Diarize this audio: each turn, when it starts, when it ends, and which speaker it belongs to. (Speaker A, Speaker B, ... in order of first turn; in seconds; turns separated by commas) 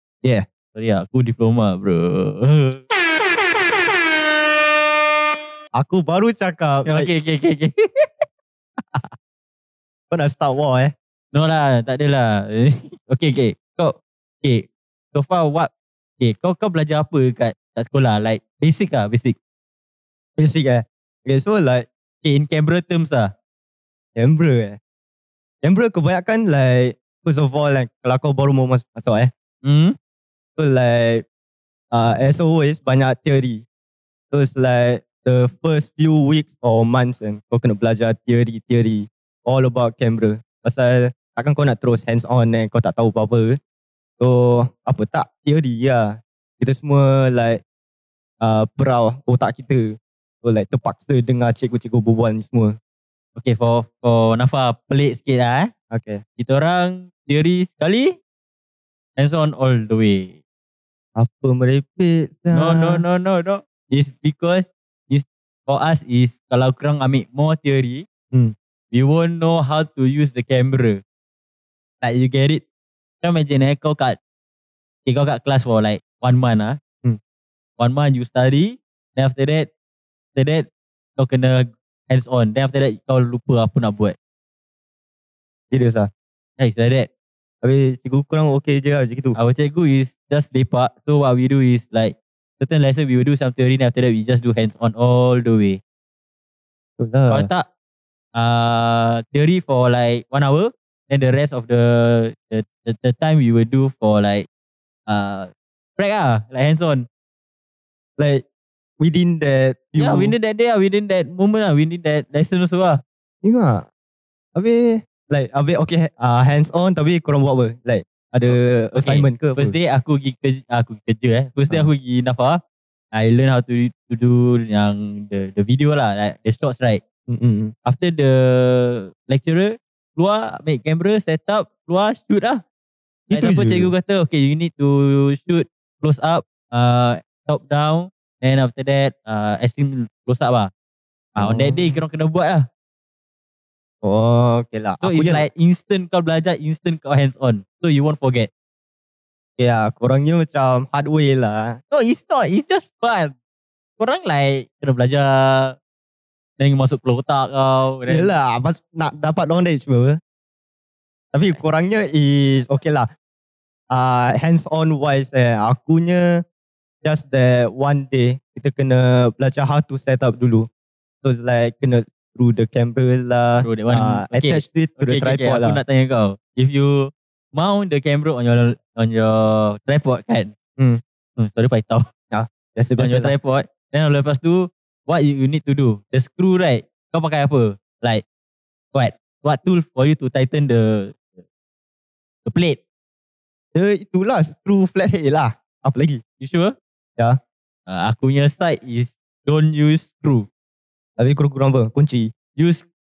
Speaker A: 0.7-2.8, Speaker B: 5.7-7.1, Speaker A: 6.8-8.1, Speaker B: 8.8-9.1, Speaker B: 10.1-10.9, Speaker A: 11.3-19.4, Speaker B: 20.4-21.9, Speaker A: 22.2-23.3, Speaker B: 24.1-24.8, Speaker B: 25.6-29.3, Speaker A: 29.6-29.9, Speaker B: 30.6-31.2, Speaker B: 31.9-33.6, Speaker B: 34.3-43.6, Speaker B: 44.2-47.6, Speaker B: 48.4-52.8, Speaker A: 53.4-55.7, Speaker B: 55.9-56.2, Speaker A: 56.4-58.2, Speaker A: 59.2-60.4, Speaker B: 61.1-63.0, Speaker A: 62.5-68.0, Speaker A: 68.9-71.0, Speaker A: 72.0-72.6, Speaker A: 73.2-74.2, Speaker A: 75.0-76.8, Speaker A: 77.8-79.7, Speaker A: 80.3-84.2, Speaker B: 85.7-86.1, Speaker A: 86.6-87.1, Speaker B: 87.6-89.3, Speaker A: 89.3-95.8, Speaker B: 97.0-97.5, Speaker A: 97.3-97.7, Speaker A: 98.3-104.5, Speaker A: 105.1-107.1, Speaker B: 108.2-108.4, Speaker B: 109.0-110.3, Speaker A: 110.0-113.0, Speaker B: 113.4-113.8, Speaker B: 114.5-119.7, Speaker A: 118.5-122.6, Speaker A: 123.1-127.0, Speaker B: 127.3-127.7, Speaker A: 127.8-132.6, Speaker B: 133.3-133.9, Speaker A: 133.3-140.7, Speaker B: 141.4-142.0, Speaker A: 141.4-142.7, Speaker B: 144.0-145.4, Speaker A: 145.0-148.5, Speaker B: 149.6-151.8, Speaker A: 151.9-153.3, Speaker A: 154.0-155.8, Speaker A: 156.6-158.3, Speaker B: 158.1-160.2, Speaker B: 161.3-163.1, Speaker B: 163.9-166.4, Speaker B: 167.0-170.7, Speaker B: 171.2-175.8, Speaker A: 173.6-180.5, Speaker A: 181.4-182.1, Speaker B: 182.3-183.3, Speaker A: 183.0-188.2, Speaker A: 188.9-191.4, Speaker A: 192.4-192.8, Speaker B: 193.7-196.2, Speaker A: 196.4-196.7, Speaker A: 197.9-200.5, Speaker B: 201.2-202.3, Speaker A: 202.5-202.8